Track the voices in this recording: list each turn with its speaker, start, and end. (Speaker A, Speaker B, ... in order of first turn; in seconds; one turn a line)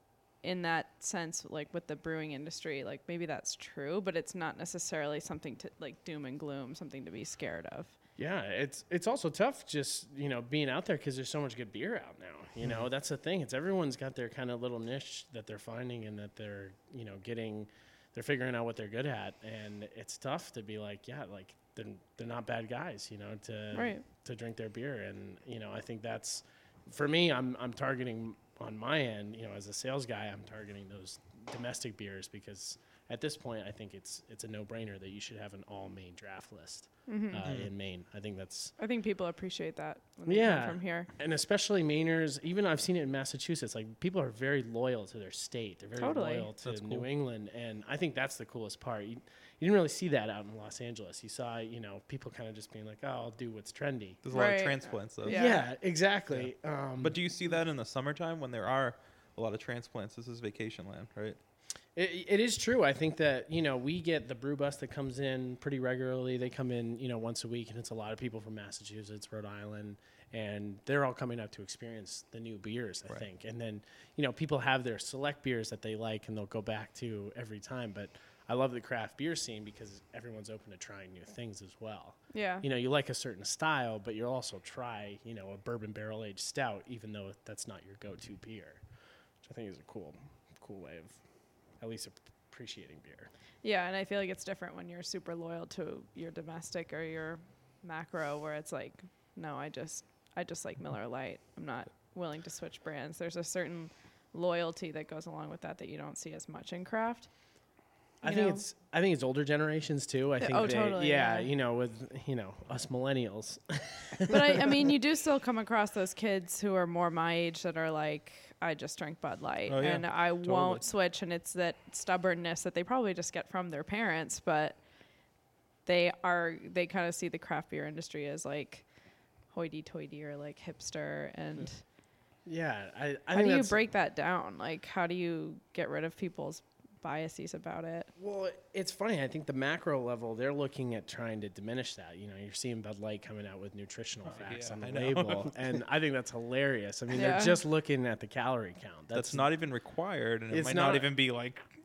Speaker A: 0.4-7.9
Speaker B: 8.2-38.7
Speaker A: 23.7-24.1
Speaker A: 37.1-37.4
Speaker C: 37.4-37.7
Speaker A: 38.8-41.1
Speaker B: 40.3-54.2
Speaker A: 46.0-46.5
Speaker C: 46.6-47.1
Speaker C: 54.2-55.4
Speaker A: 54.3-55.7
Speaker B: 55.2-57.2
Speaker C: 56.3-61.4
Speaker B: 62.0-88.8
Speaker A: 82.3-82.6
Speaker B: 89.4-91.2
Speaker B: 91.8-93.3
Speaker A: 93.6-107.3
Speaker B: 108.2-114.9
Speaker A: 108.2-108.6
Speaker A: 110.4-111.5
Speaker A: 114.3-124.8
Speaker C: 119.7-120.8
Speaker A: 125.8-128.8
Speaker A: 129.5-131.8
Speaker B: 132.4-133.8
Speaker A: 133.3-138.1
Speaker B: 138.2-149.5
Speaker C: 144.2-145.6
Speaker A: 147.2-147.6
Speaker C: 149.1-151.6
Speaker B: 150.5-151.1